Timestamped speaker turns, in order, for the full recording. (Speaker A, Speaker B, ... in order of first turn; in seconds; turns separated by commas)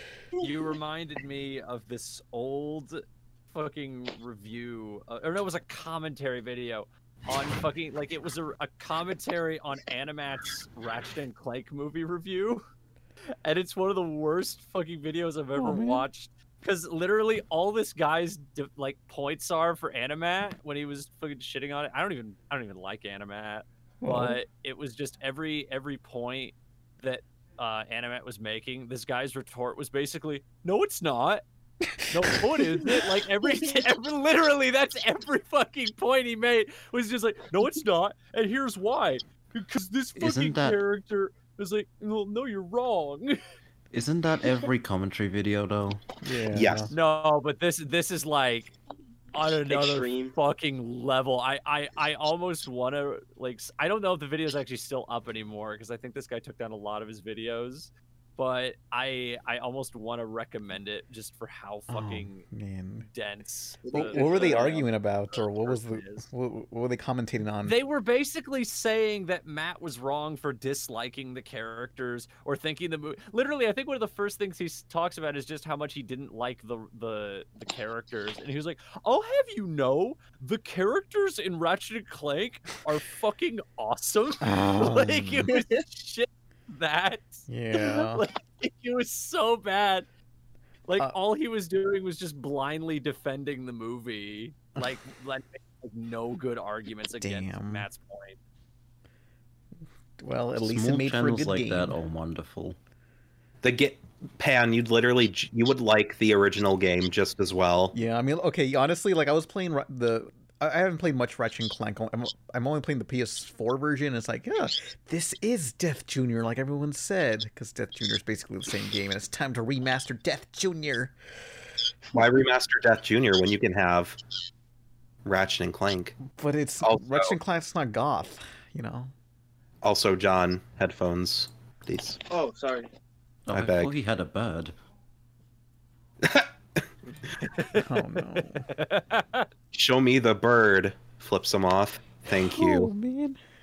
Speaker A: 0.4-12.6, Speaker B: 0.4-0.7, Speaker A: 13.4-31.4, Speaker C: 15.6-16.1, Speaker C: 24.0-24.4, Speaker A: 32.1-43.4, Speaker D: 40.2-40.8, Speaker D: 43.9-46.0, Speaker C: 46.2-46.9, Speaker E: 46.5-46.9, Speaker A: 46.9-48.7, Speaker A: 49.3-62.5, Speaker B: 49.7-50.4, Speaker C: 61.9-63.1, Speaker A: 63.0-66.3, Speaker B: 63.8-64.9, Speaker C: 63.9-67.8, Speaker A: 67.7-90.1, Speaker C: 84.4-85.5, Speaker C: 87.5-88.2, Speaker A: 90.9-98.4, Speaker C: 97.2-97.9, Speaker C: 100.2-102.0, Speaker D: 100.6-102.8, Speaker E: 103.6-107.9, Speaker C: 107.9-121.1, Speaker E: 122.1-124.2, Speaker E: 125.2-126.2, Speaker C: 126.2-129.1, Speaker E: 126.8-127.3, Speaker E: 129.8-132.2, Speaker B: 132.3-132.9, Speaker D: 133.5-134.8, Speaker E: 133.5-133.9, Speaker E: 136.2-136.5, Speaker A: 137.6-139.5, Speaker C: 137.7-138.7, Speaker E: 139.7-142.9, Speaker C: 142.3-143.4